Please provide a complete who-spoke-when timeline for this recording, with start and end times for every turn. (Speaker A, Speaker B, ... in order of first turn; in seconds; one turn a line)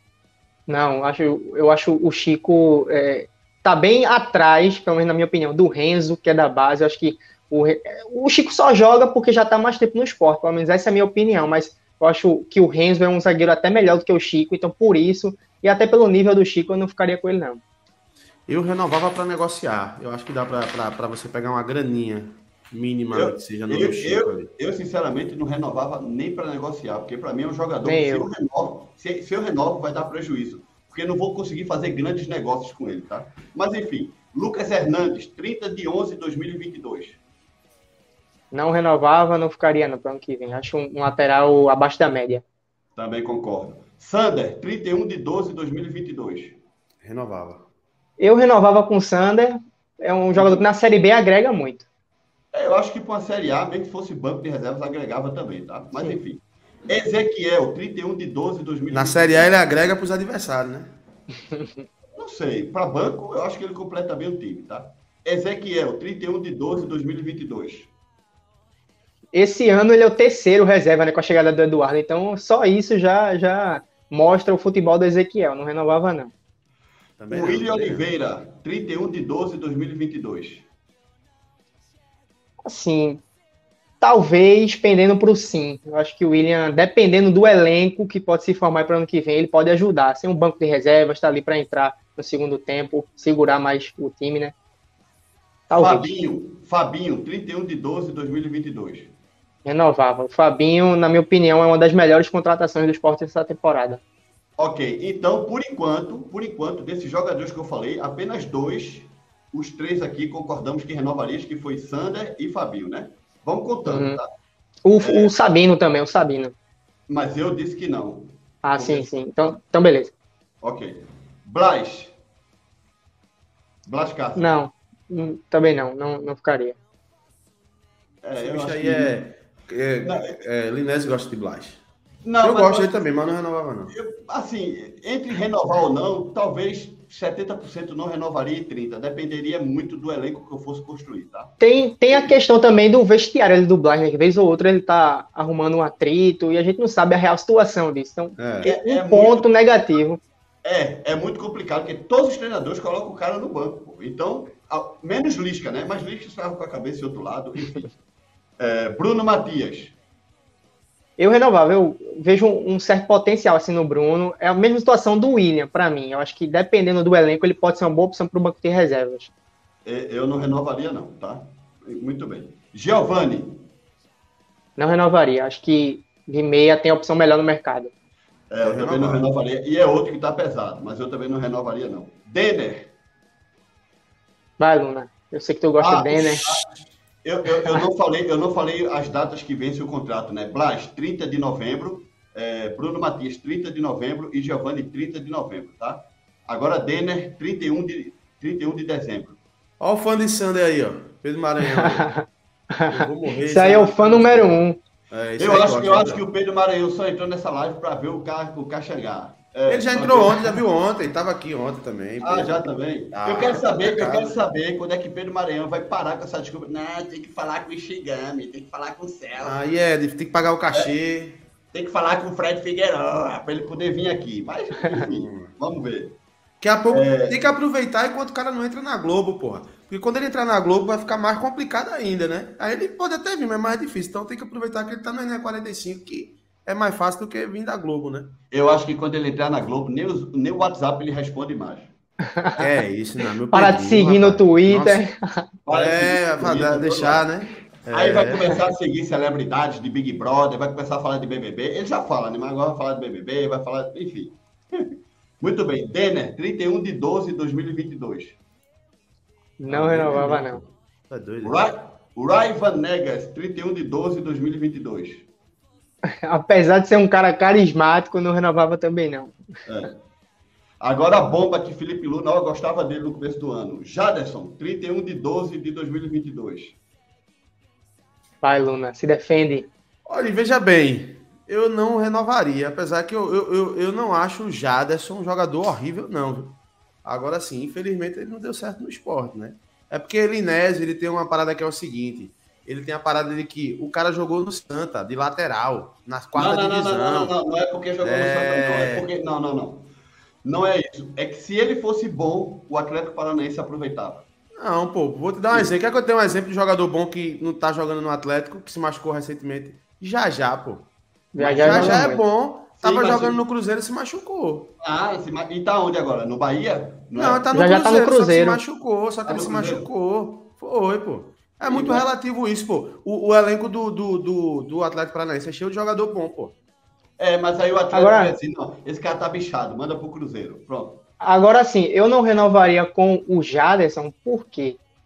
Speaker A: 0.7-17.6
Speaker B: 18.5-24.5
Speaker C: 23.1-37.2
Speaker A: 27.9-28.3
Speaker A: 38.5-42.4
Speaker C: 43.0-46.6
Speaker B: 47.0-47.6
Speaker A: 48.2-51.9
Speaker C: 50.4-50.6
Speaker C: 52.5-59.7
Speaker B: 58.9-61.0
Speaker C: 62.2-67.9
Speaker A: 69.3-76.3
Speaker B: 77.2-78.1
Speaker C: 77.3-80.7
Speaker A: 82.7-83.2
Speaker A: 84.0-94.5
Speaker A: 95.7-96.1
Speaker C: 95.7-99.1
Speaker A: 99.7-104.0
Speaker C: 104.6-114.3
Speaker A: 113.8-114.2
Speaker A: 114.8-116.5
Speaker C: 115.0-115.3
Speaker C: 117.1-119.1
Speaker A: 118.6-120.1
Speaker C: 120.6-122.2
Speaker C: 123.9-124.5
Speaker A: 124.4-126.8
Speaker C: 128.2-129.1
Speaker B: 128.4-131.8
Speaker C: 132.2-133.1
Speaker B: 132.4-133.9
Speaker C: 133.9-141.5
Speaker A: 141.6-150.2
Speaker C: 142.1-142.3
Speaker B: 148.4-148.7
Speaker C: 148.6-149.5
Speaker C: 150.6-157.9
Speaker C: 158.6-160.0
Speaker A: 161.2-169.3
Speaker C: 169.8-173.6
Speaker A: 174.8-177.9
Speaker C: 178.5-182.9
Speaker B: 178.6-179.2
Speaker A: 184.6-186.6
Speaker C: 185.8-186.7
Speaker C: 187.2-199.4
Speaker B: 199.8-202.1
Speaker A: 201.7-202.2
Speaker A: 202.7-204.8
Speaker B: 202.9-204.6
Speaker B: 205.1-206.2
Speaker C: 205.4-210.6
Speaker B: 209.7-214.4
Speaker C: 212.2-219.6
Speaker B: 219.4-221.4
Speaker C: 221.7-226.2
Speaker B: 225.1-225.5
Speaker B: 226.6-238.3
Speaker C: 226.9-227.4
Speaker C: 238.5-241.9
Speaker A: 242.4-242.7
Speaker B: 242.6-245.1
Speaker A: 243.5-245.5
Speaker C: 245.7-247.2
Speaker B: 245.7-248.6
Speaker C: 247.9-254.9
Speaker C: 255.4-258.4
Speaker A: 259.6-260.6
Speaker B: 259.7-261.6
Speaker C: 261.4-265.3
Speaker A: 266.2-269.4
Speaker C: 269.7-270.0
Speaker C: 270.8-276.8
Speaker A: 278.4-279.7
Speaker B: 280.1-297.3
Speaker C: 296.4-299.9
Speaker B: 298.0-299.1
Speaker C: 300.4-304.2
Speaker B: 304.6-310.9
Speaker A: 311.3-312.2
Speaker C: 311.4-312.1
Speaker B: 311.6-314.7
Speaker C: 312.8-313.4
Speaker C: 314.8-317.4
Speaker B: 317.2-326.5
Speaker A: 317.5-318.6
Speaker C: 319.3-319.9
Speaker C: 321.7-322.1
Speaker C: 327.2-331.0
Speaker A: 327.9-328.3
Speaker A: 331.2-334.8